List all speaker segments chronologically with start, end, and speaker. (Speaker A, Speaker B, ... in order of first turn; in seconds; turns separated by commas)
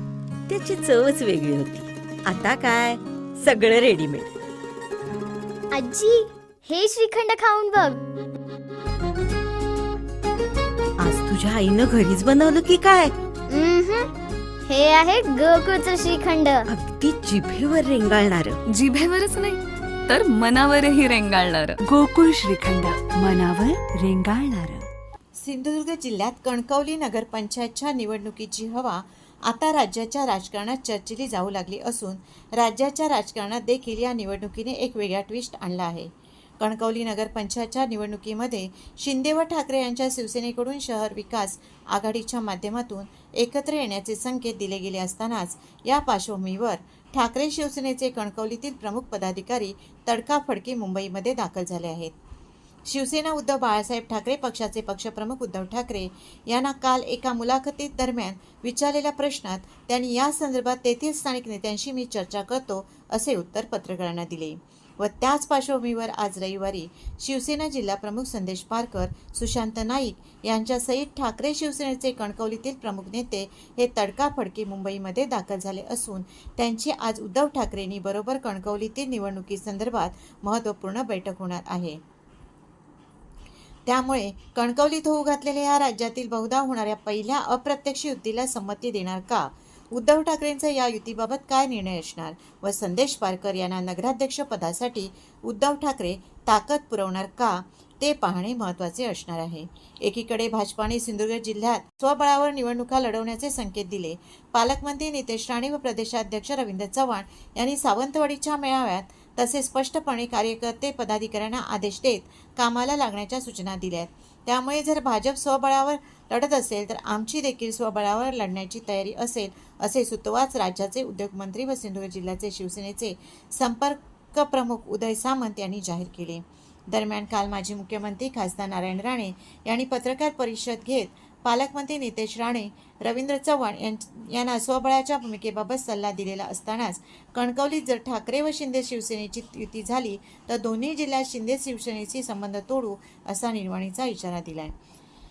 Speaker A: 0.5-4.3, Speaker B: 5.7-8.0, Speaker A: 11.0-13.1, Speaker B: 13.5-14.1, Speaker B: 14.7-16.7, Speaker A: 16.7-18.6, Speaker C: 18.7-21.8, Speaker D: 21.8-24.9, Speaker E: 25.3-52.1, Speaker E: 52.9-82.0, Speaker E: 83.8-144.7